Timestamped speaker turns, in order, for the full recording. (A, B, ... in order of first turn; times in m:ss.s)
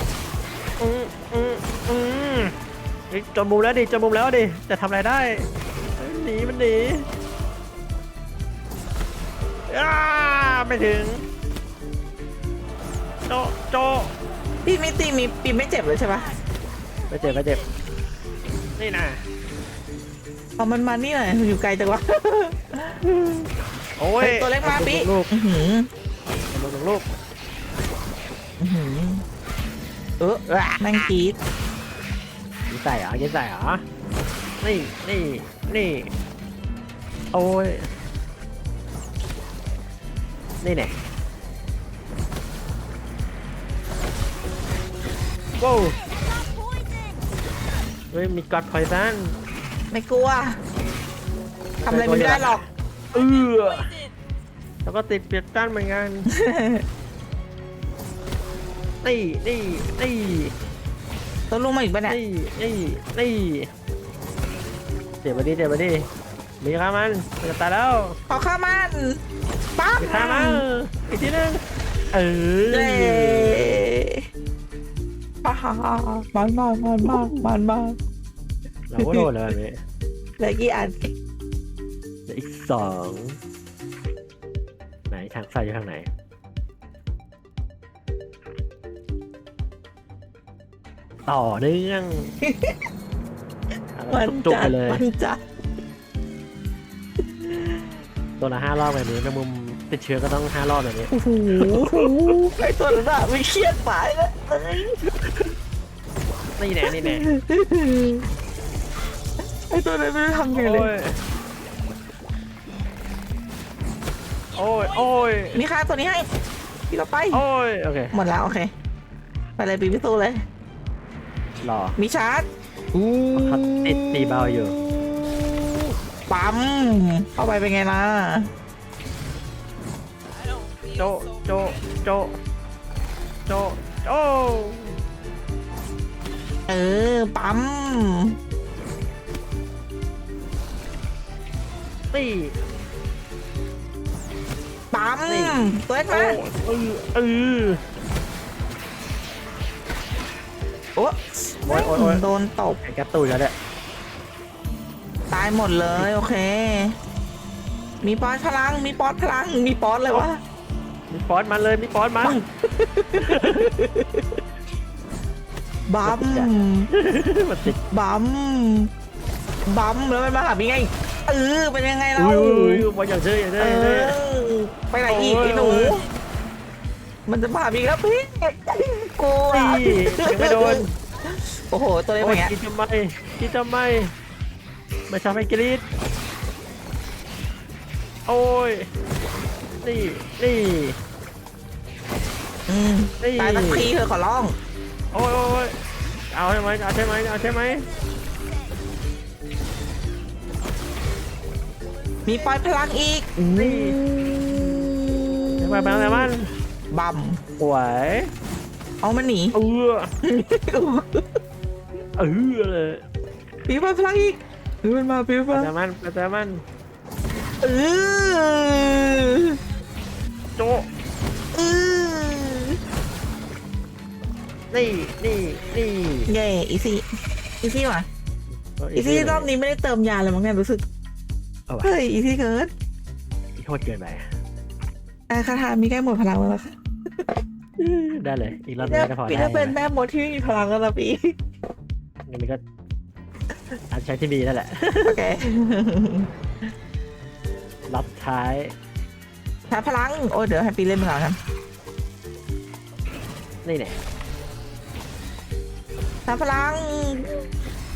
0:00.8-0:02.5 A
0:03.1-0:07.1 A
0:09.7-0:11.2 A
0:13.3-0:14.1 A
0:14.6-0:16.3 B
0:17.1-0:17.7 A
0:18.8-0:19.2 A
0:20.6-0:23.1 B
0:24.0-0:25.3 A
0:24.2-0:25.9 B
0:26.5-0:27.0 A
0:28.6-0:29.2 B
0:30.2-0:31.4 B
0:30.5-0:30.8 A
0:32.7-0:33.8 A
0:34.6-0:36.1 A
0:37.3-0:37.9 A
0:40.6-0:40.9 A
0:45.6-0:46.0 A
0:48.1-0:49.4 A
0:49.9-0:50.6 B
0:51.8-0:52.6 B
0:51.8-0:53.9 A
0:54.8-0:56.3 A
0:56.3-0:56.8 B
0:59.0-1:00.5 A
1:01.5-1:02.2 B
1:02.1-1:03.7 A
1:05.2-1:06.1 A
1:06.6-1:08.2 A
1:08.3-1:09.2 B
1:09.8-1:10.6 B
1:10.0-1:11.6 A
1:12.1-1:13.8 A
1:12.7-1:14.2 B
1:15.4-1:18.0 B
1:17.0-1:17.4 A
1:18.9-1:19.8 A
1:19.0-1:19.3 B
1:20.4-1:21.1 B
1:22.3-1:23.4 A
1:25.1-1:26.1 A
1:31.2-1:32.3 A
1:32.4-1:32.8 B
1:34.0-1:35.0 A
1:34.1-1:35.4 B
1:37.4-1:37.8 B
1:38.4-1:42.3 A
1:41.1-1:45.0 B
1:46.6-1:47.2 A
1:46.8-1:48.3 B
1:49.7-1:50.9 B
1:50.5-1:51.1 A
1:54.5-1:55.6 A
1:55.5-1:56.2 B
1:56.9-1:57.4 B
1:57.3-1:58.2 A
1:58.1-1:58.7 B
1:59.6-2:00.4 B
2:01.6-2:02.0 A
2:02.0-2:08.5 B
2:03.3-2:04.8 A
2:10.9-2:12.4 A
2:13.5-2:14.9 A
2:16.7-2:18.4 B
2:22.1-2:22.5 A
2:24.9-2:26.4 B
2:25.3-2:27.8 A
2:31.0-2:32.8 B
2:31.6-2:32.2 A
2:32.8-2:33.5 A
2:35.3-2:37.0 B
2:38.0-2:40.4 B
2:41.1-2:42.4 A
2:42.2-2:44.0 B
2:43.2-2:43.7 A
2:45.9-2:46.9 B
2:46.0-2:47.8 A
2:47.6-2:48.9 B
2:49.6-2:52.8 B
2:52.2-2:54.2 A
2:53.6-2:56.0 B
2:55.1-2:56.0 A
2:57.3-3:02.5 B
2:59.5-3:00.9 A
3:02.2-3:04.1 A
3:05.1-3:05.8 A
3:08.3-3:08.9 A
3:09.8-3:11.0 A
3:12.7-3:14.5 B
3:13.2-3:13.9 A
3:15.1-3:15.8 A
3:16.3-3:17.9 A
3:22.2-3:26.3 B
3:23.5-3:24.0 A
3:25.6-3:26.5 A
3:26.9-3:27.4 B
3:27.6-3:28.3 A
3:29.0-3:29.5 B
3:29.5-3:30.1 A
3:30.2-3:31.4 B
3:32.2-3:33.0 A
3:33.7-3:35.7 B
3:35.5-3:36.6 A
3:37.6-3:39.6 B
3:40.6-3:40.9 A
3:41.5-3:42.8 B
3:44.7-3:46.3 A
3:46.3-3:47.0 B
3:47.6-3:48.0 B
3:48.8-3:49.5 A
3:49.0-3:50.8 B
3:51.7-3:51.9 A
3:51.8-3:52.7 B
3:53.6-3:54.3 A
3:55.3-3:57.2 B
3:57.8-3:59.8 A
3:58.8-4:01.4 B
4:02.3-4:02.6 A
4:03.9-4:05.2 A
4:05.0-4:06.3 B
4:07.9-4:08.8 A
4:09.7-4:11.4 B
4:13.6-4:14.0 A
4:16.2-4:17.5 B